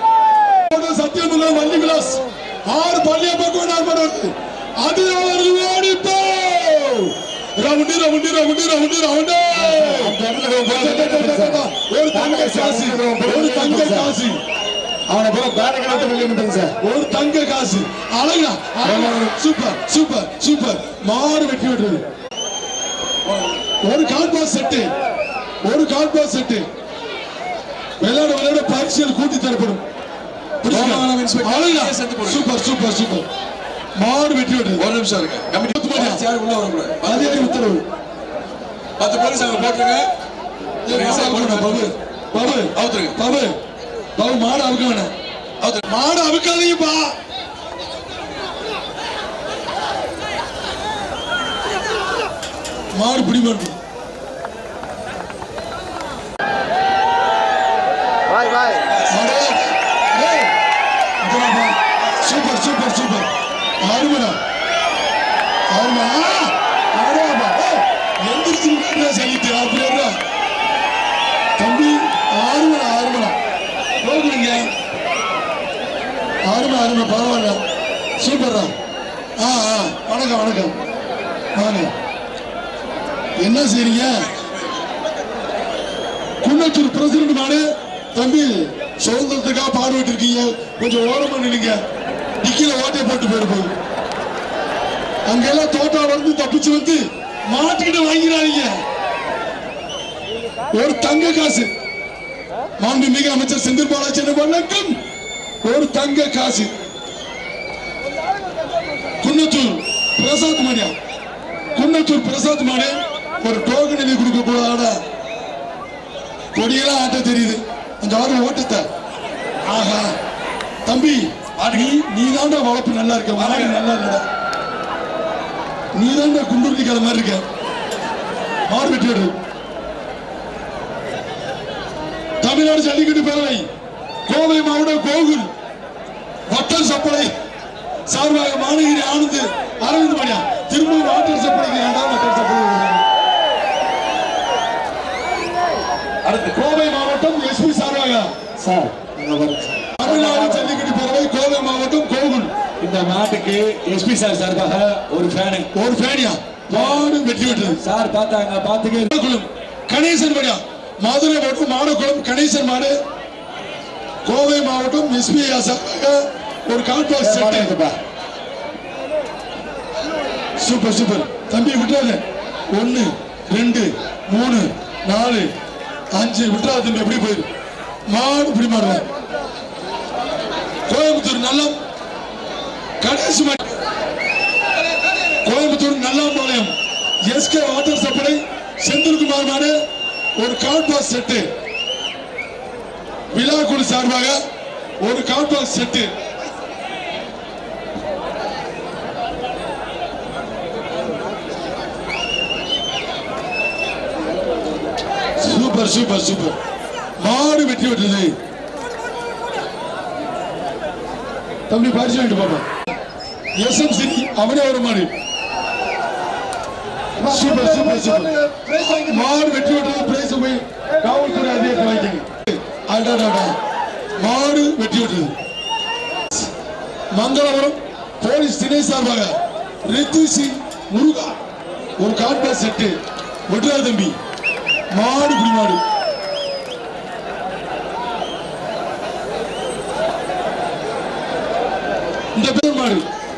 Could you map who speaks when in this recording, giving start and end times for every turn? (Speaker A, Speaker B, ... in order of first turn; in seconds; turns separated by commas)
Speaker A: 0.7-14.4, Speaker B: 9.5-14.1, Speaker B: 15.1-16.8, Speaker A: 16.8-22.1, Speaker B: 18.8-19.3, Speaker C: 23.2-23.6, Speaker A: 23.8-24.9, Speaker A: 25.6-26.7, Speaker A: 28.0-29.8, Speaker A: 30.6-33.3, Speaker C: 30.7-32.5, Speaker A: 34.0-34.8, Speaker C: 34.8-37.7, Speaker A: 35.7-36.2, Speaker A: 37.0-37.8, Speaker C: 39.0-40.1, Speaker A: 40.9-43.5, Speaker C: 40.9-42.0, Speaker C: 42.8-43.2, Speaker A: 44.2-45.1, Speaker C: 45.6-45.9, Speaker A: 45.9-47.1, Speaker A: 52.9-53.8, Speaker A: 59.1-60.5, Speaker A: 61.2-63.3, Speaker A: 63.8-64.4, Speaker A: 65.7-70.2, Speaker A: 71.6-73.3, Speaker A: 74.0-74.7, Speaker A: 76.5-77.6, Speaker A: 78.2-78.7, Speaker A: 79.4-80.8, Speaker A: 81.5-81.9, Speaker A: 83.4-84.3, Speaker A: 86.4-91.8, Speaker A: 92.4-93.7, Speaker A: 95.3-98.8, Speaker A: 100.7-101.7, Speaker A: 102.8-104.9, Speaker A: 105.6-106.7, Speaker A: 109.2-110.9, Speaker A: 111.8-115.0, Speaker A: 116.5-118.9, Speaker A: 119.7-120.1, Speaker A: 120.8-124.2, Speaker C: 121.6-122.0, Speaker C: 123.4-123.8, Speaker A: 125.9-127.4, Speaker A: 128.7-129.3, Speaker A: 132.4-133.7, Speaker A: 134.3-135.5, Speaker A: 136.5-137.3, Speaker A: 138.1-143.0, Speaker C: 146.2-146.6, Speaker A: 146.5-148.3, Speaker B: 148.6-150.8, Speaker A: 150.0-152.5, Speaker D: 152.8-155.7, Speaker A: 155.7-157.8, Speaker D: 156.7-157.1, Speaker D: 157.6-159.1, Speaker A: 159.1-163.0, Speaker A: 164.2-167.8, Speaker B: 167.2-168.0, Speaker A: 170.6-172.2, Speaker A: 172.7-175.5, Speaker A: 176.1-177.5, Speaker A: 178.1-179.0, Speaker A: 180.9-181.8, Speaker A: 183.0-183.7, Speaker A: 185.4-186.7, Speaker A: 187.2-189.8, Speaker A: 190.4-191.5, Speaker A: 193.3-194.4, Speaker A: 195.0-196.1, Speaker A: 205.4-206.6, Speaker A: 207.2-208.3, Speaker A: 211.7-212.7, Speaker A: 213.6-215.1, Speaker B: 217.2-219.3, Speaker A: 217.3-223.6, Speaker A: 224.2-225.3, Speaker A: 227.1-231.4, Speaker A: 232.0-232.9, Speaker A: 233.5-234.2, Speaker A: 234.9-235.8, Speaker A: 242.3-243.0